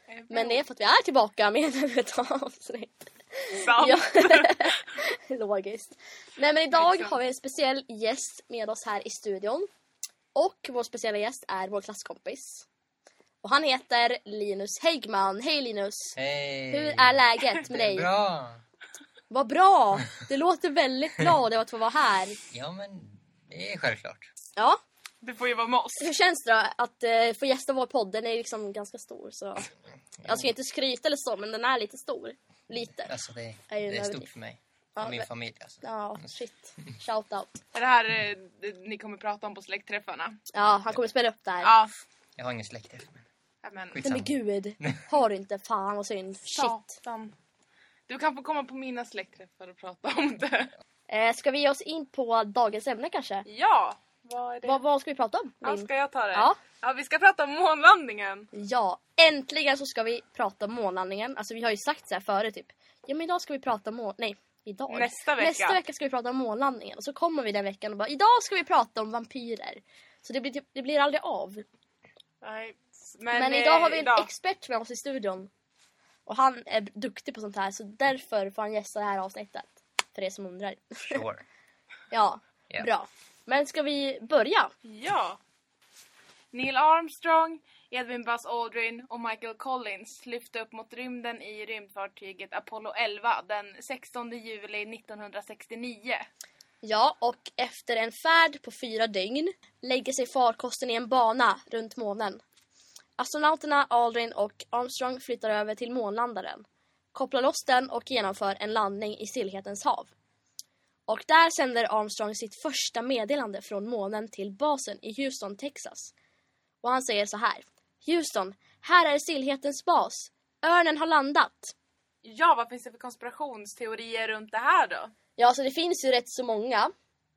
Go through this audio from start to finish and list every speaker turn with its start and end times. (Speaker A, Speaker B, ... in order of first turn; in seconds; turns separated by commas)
Speaker A: 0.1-0.6, Speaker B: 0.3-9.7, Speaker A: 3.5-4.7, Speaker A: 6.7-7.2, Speaker B: 10.3-12.7, Speaker B: 13.4-16.2, Speaker C: 16.2-18.6, Speaker B: 16.7-18.1, Speaker B: 19.3-22.4, Speaker C: 22.5-24.3, Speaker A: 25.2-26.1, Speaker B: 26.0-29.7, Speaker C: 30.2-30.5, Speaker B: 30.2-33.1, Speaker C: 33.0-36.9, Speaker B: 33.7-34.3, Speaker B: 35.0-35.3, Speaker B: 35.8-37.6, Speaker A: 37.7-40.4, Speaker B: 40.5-41.7, Speaker A: 41.6-41.9, Speaker C: 42.4-43.3, Speaker A: 43.6-44.1, Speaker C: 43.9-45.0, Speaker B: 44.0-46.9, Speaker A: 46.5-47.4, Speaker A: 48.1-50.7, Speaker B: 51.1-53.5, Speaker A: 53.5-54.8, Speaker B: 54.6-56.6, Speaker A: 55.6-58.5, Speaker B: 58.5-71.7, Speaker A: 64.9-65.8, Speaker A: 72.4-74.3, Speaker B: 73.3-75.5, Speaker B: 76.3-81.2, Speaker C: 81.1-81.4, Speaker B: 82.1-84.7, Speaker A: 84.8-85.4, Speaker A: 86.5-96.3, Speaker B: 96.8-102.4, Speaker B: 103.2-110.1, Speaker B: 111.1-116.1, Speaker B: 116.8-121.7, Speaker A: 122.2-125.1, Speaker B: 125.4-126.9